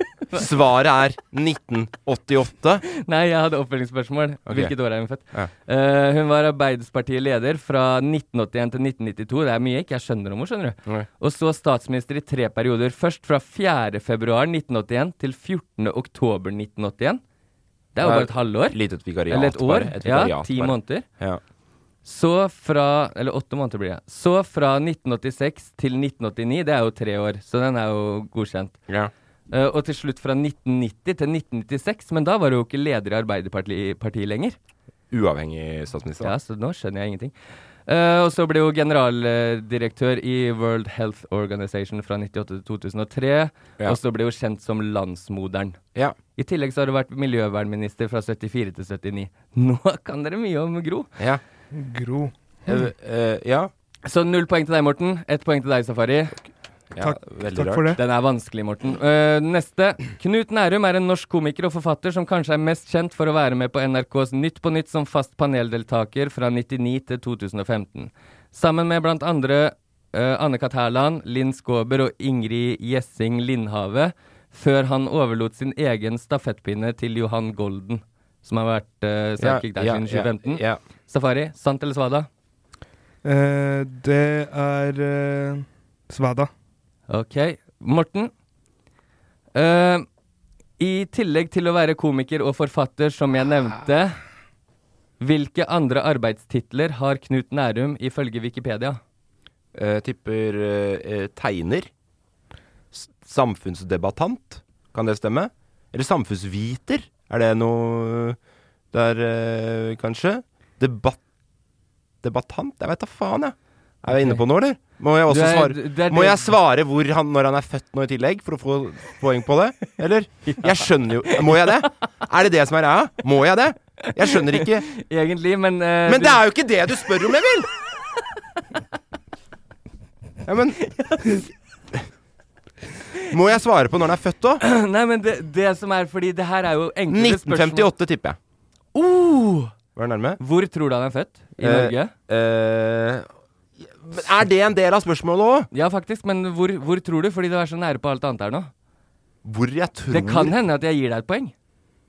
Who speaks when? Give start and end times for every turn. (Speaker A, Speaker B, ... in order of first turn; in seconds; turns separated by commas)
Speaker A: 0.3-2.8, Speaker B: 2.9-17.2, Speaker A: 4.5-4.7, Speaker B: 17.9-21.1, Speaker A: 18.0-21.4, Speaker B: 22.1-28.8, Speaker B: 29.5-34.6, Speaker A: 35.1-36.3, Speaker B: 36.2-37.3, Speaker B: 37.9-45.8, Speaker B: 46.4-51.1, Speaker C: 51.7-52.8, Speaker A: 52.7-53.7, Speaker B: 54.0-56.4, Speaker A: 56.9-58.0, Speaker C: 57.0-58.0, Speaker B: 58.0-82.3, Speaker A: 79.4-80.8, Speaker C: 83.2-86.5, Speaker B: 87.1-88.3, Speaker B: 89.5-90.1, Speaker B: 90.8-94.2, Speaker B: 95.2-99.0, Speaker A: 99.7-101.9, Speaker A: 102.9-108.4, Speaker A: 108.9-111.2, Speaker A: 112.2-124.9, Speaker B: 114.1-114.4, Speaker B: 115.3-116.5, Speaker B: 120.5-121.7, Speaker B: 124.5-126.5, Speaker A: 126.1-127.7, Speaker A: 130.4-130.8, Speaker B: 130.8-131.5, Speaker A: 133.3-134.6, Speaker B: 134.6-137.9, Speaker A: 137.1-138.4, Speaker B: 138.9-139.7, Speaker A: 140.0-140.4, Speaker B: 140.4-142.1, Speaker A: 141.6-143.3, Speaker A: 144.0-145.7, Speaker B: 145.7-148.7, Speaker A: 149.4-150.6, Speaker B: 150.1-151.5